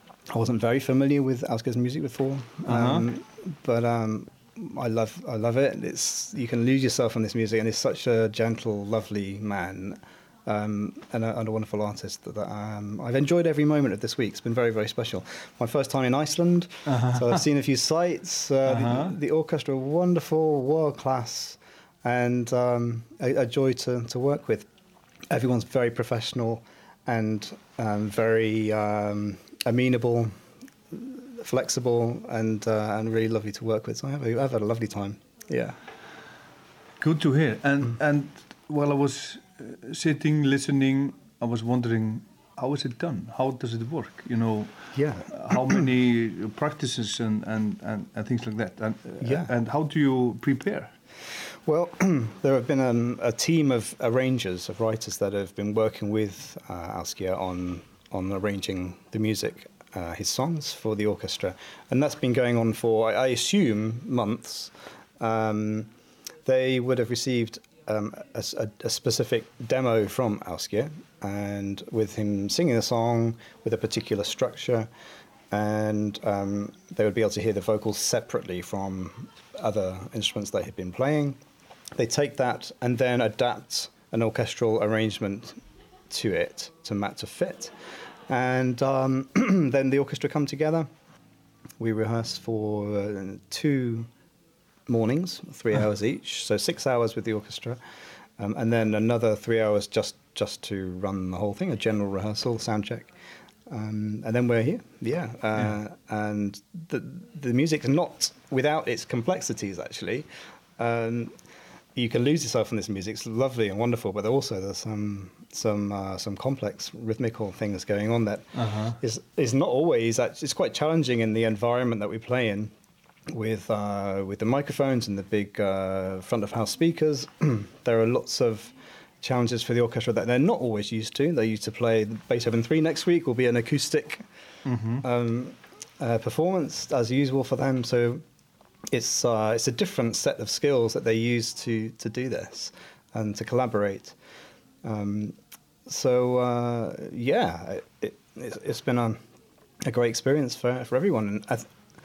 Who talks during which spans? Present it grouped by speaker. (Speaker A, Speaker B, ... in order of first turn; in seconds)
Speaker A: 0.3-24.7, 25.3-30.3, 30.9-35.8, 45.0-45.9, 49.2-49.5, 51.6-65.9, 66.4-74.9, 75.5-81.4, 82.0-85.6, 86.1-87.7, 88.3-90.9, 91.8-94.1, 94.9-97.8, 98.4-103.1, 103.7-110.3, 110.8-111.3, 112.0-118.5, 119.0-122.7, 123.3-134.2, 135.0-138.2, 138.9-144.2, 144.8-145.3, 145.9-149.2, 149.8-151.7
Speaker B: 2.6-3.0, 16.9-17.4, 18.7-19.1, 37.0-50.9, 118.5-119.0, 134.7-135.0